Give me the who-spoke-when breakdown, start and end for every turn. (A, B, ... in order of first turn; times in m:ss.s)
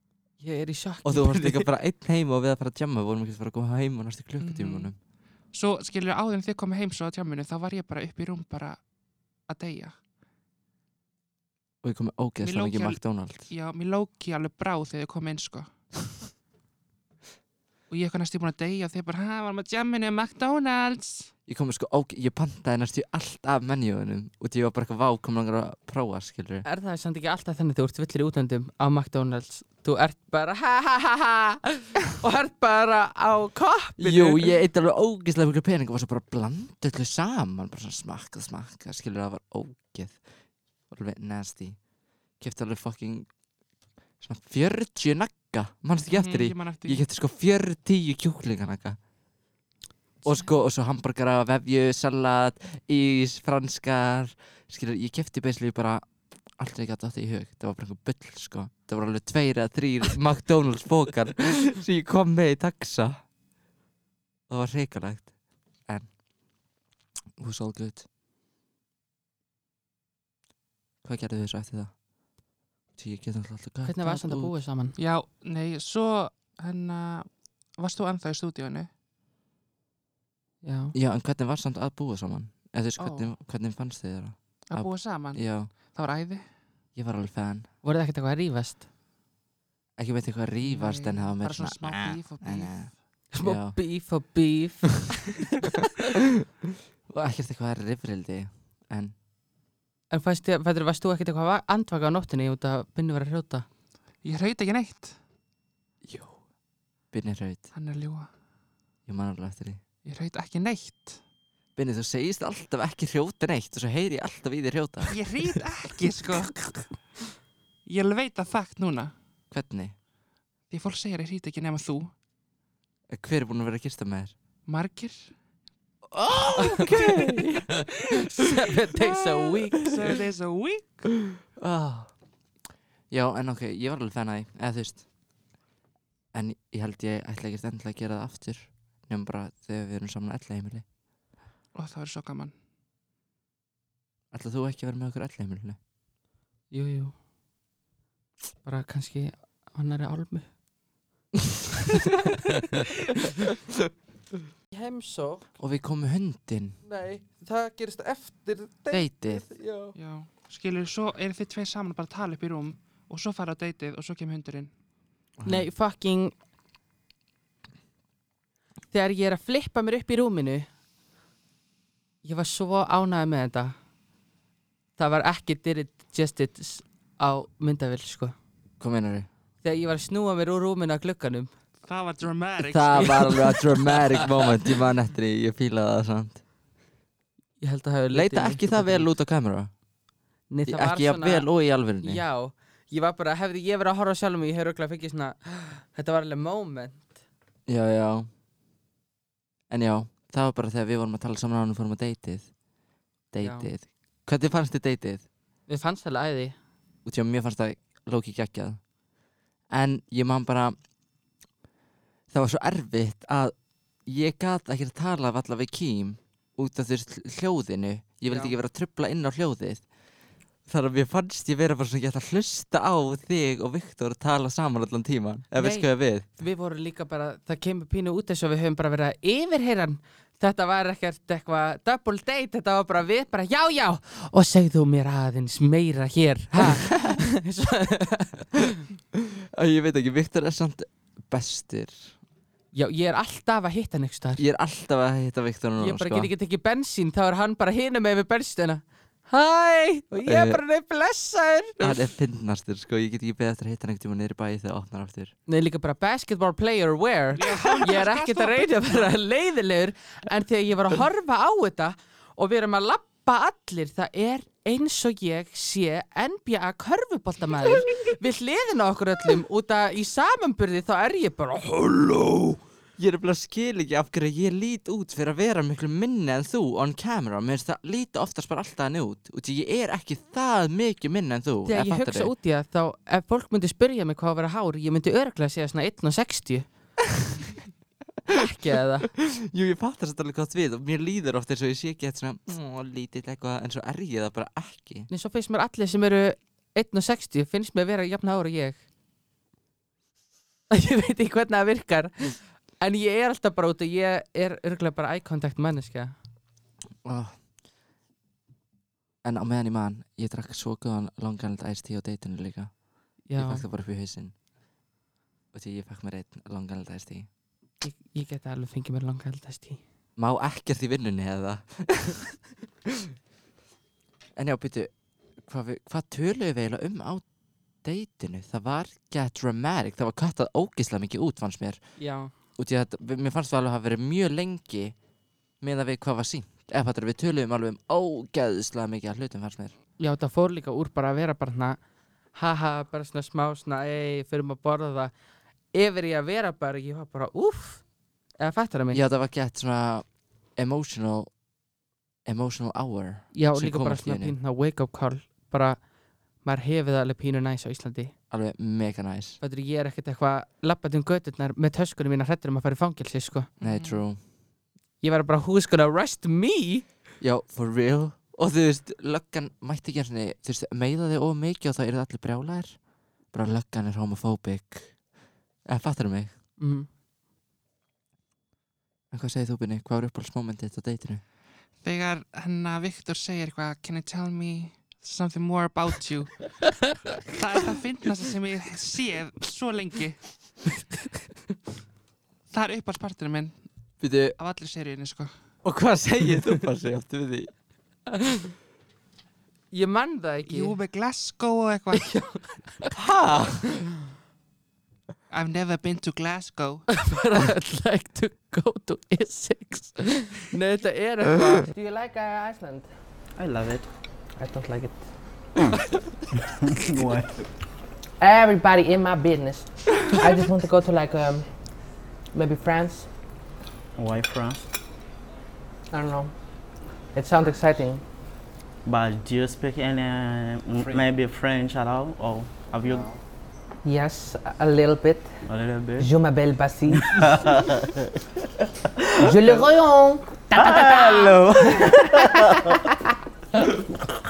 0:00.4-0:01.7 A
0:01.0-0:05.0 B
0:04.4-0:05.0 C
0:05.5-0:08.8 C
0:09.5-0:10.0 C
0:11.8-0:13.5 B
0:12.4-0:15.7 C
0:17.9-0:21.3 C
0:21.5-0:26.6 B
0:26.6-0:34.5 A
0:34.0-0:40.2 B
0:40.9-0:41.8 B
0:42.4-0:43.3 B
0:44.2-0:49.0 B
0:46.1-0:47.0 C
0:50.2-1:03.2 B
1:04.5-1:05.3 B
1:07.4-1:08.0 B
1:11.0-1:11.9 B
1:12.9-1:14.6 B
1:13.8-1:15.0 A
1:15.0-1:18.9 C
1:20.6-1:20.9 A
1:20.9-1:25.7 B
1:23.0-1:23.3 C
1:24.7-1:26.5 C
1:26.9-1:27.7 B
1:27.8-1:28.8 A
1:30.0-1:33.8 B
1:30.6-1:32.9 C
1:33.3-1:35.5 A
1:37.1-1:39.1 B
1:40.1-1:43.6 A
1:44.2-1:45.2 C
1:46.0-1:46.4 B
1:47.1-1:47.7 B
1:47.7-1:48.3 C
1:49.0-1:49.8 B
1:50.0-1:51.2 C
1:51.8-1:55.2 B
1:55.1-1:56.9 C
1:57.8-1:59.1 C
1:59.5-1:59.9 B
2:00.7-2:02.1 C
2:03.1-2:04.3 B
2:04.6-2:05.3 C
2:06.1-2:07.7 B
2:06.6-2:06.9 A
2:06.8-2:07.5 C
2:07.7-2:09.9 A
2:09.0-2:11.1 C
2:11.3-2:12.1 B
2:13.1-2:15.0 B
2:16.3-2:20.8 B
2:21.7-2:22.5 C
2:24.3-2:25.8 B
2:26.7-2:27.1 A
2:28.6-2:30.5 A
2:33.4-2:33.8 B
2:34.7-2:35.4 A
2:35.6-2:36.8 B
2:36.8-2:39.9 A
2:38.9-2:39.4 B
2:39.9-2:44.7 C
2:45.4-2:45.7 B
2:45.4-2:46.3 A
2:48.9-2:50.7 A
2:52.2-2:53.8 A
2:55.0-2:58.3 A
2:58.8-2:59.3 B
2:59.6-3:01.5 A
3:01.8-3:03.3 C
3:02.6-3:06.4 B
3:03.0-3:03.9 A
3:07.6-3:09.1 A
3:08.1-3:09.7 B
3:10.5-3:11.5 A
3:10.7-3:12.2 B
3:12.0-3:17.1 A
3:17.7-3:18.3 B
3:19.7-3:22.5 B
3:23.3-3:25.2 B
3:23.4-3:23.7 A
3:25.7-3:26.6 A
3:27.0-3:28.8 B
3:29.7-3:30.8 B
3:32.3-3:33.5 B
3:34.0-3:39.8 B
3:38.2-3:38.6 A
3:40.7-3:46.2 B
3:45.6-3:58.8 A
3:56.6-3:57.2 B
3:59.1-4:02.1 B
4:02.7-4:04.4 A
4:04.4-4:06.3 B
4:05.8-4:12.0 A
4:10.2-4:10.6 B
4:11.8-4:15.3 B
4:15.5-4:32.6 A
4:17.3-4:19.1 C
4:33.0-4:42.3 B
4:41.7-4:46.7 A
4:48.3-4:49.1 A
4:49.2-4:55.1 B
4:55.1-4:58.8 A
5:00.7-5:06.1 A
5:07.0-5:07.4 B
5:09.2-5:12.7 B
5:13.3-5:13.6 A
5:13.3-5:14.3 B
5:15.5-5:17.3 B
5:17.8-5:19.8 A
5:20.2-5:22.2 B
5:24.4-5:24.9 B
5:25.4-5:27.2 B
5:27.8-5:31.8 B
5:32.0-5:32.3 A
5:32.6-5:34.9 B
5:35.6-5:39.7 B
5:40.0-5:41.8 A
5:42.3-5:45.1 A
5:45.7-5:47.8 A
5:48.4-5:49.0 A
5:48.9-5:51.3 B
5:52.2-5:54.4 B
5:53.3-5:55.8 A
5:56.4-5:58.1 A
5:58.3-5:59.4 B
5:59.4-6:03.5 A
6:03.6-6:04.0 C
6:03.6-6:04.2 B
6:05.0-6:06.8 A
6:07.2-6:12.8 B
6:13.3-6:15.0 B
6:15.6-6:16.3 B
6:16.6-6:16.9 A
6:19.1-6:21.2 B
6:21.8-6:26.5 C
6:27.3-6:30.2 C
6:32.5-6:33.6 C
6:34.0-6:34.4 B
6:34.4-6:35.3 C
6:35.6-6:37.5 B
6:39.7-6:40.7 A
6:40.5-6:42.2 C
6:42.0-6:42.4 A
6:42.9-6:43.9 B
6:45.3-6:46.9 C
6:46.9-6:51.7 A
6:51.7-6:52.9 D
6:53.4-6:53.8 E
6:54.4-6:55.0 D
6:56.7-6:57.4 E
6:58.2-7:01.5 D
7:02.3-7:03.1 D
7:04.0-7:04.7 E
7:05.9-7:06.3 D
7:07.1-7:08.0 D
7:08.8-7:13.1 E
7:13.8-7:15.3 D
7:15.4-7:16.1 E
7:16.0-7:17.2 D
7:16.9-7:18.0 E
7:19.0-7:19.6 E
7:19.2-7:22.7 D
7:20.5-7:22.7 E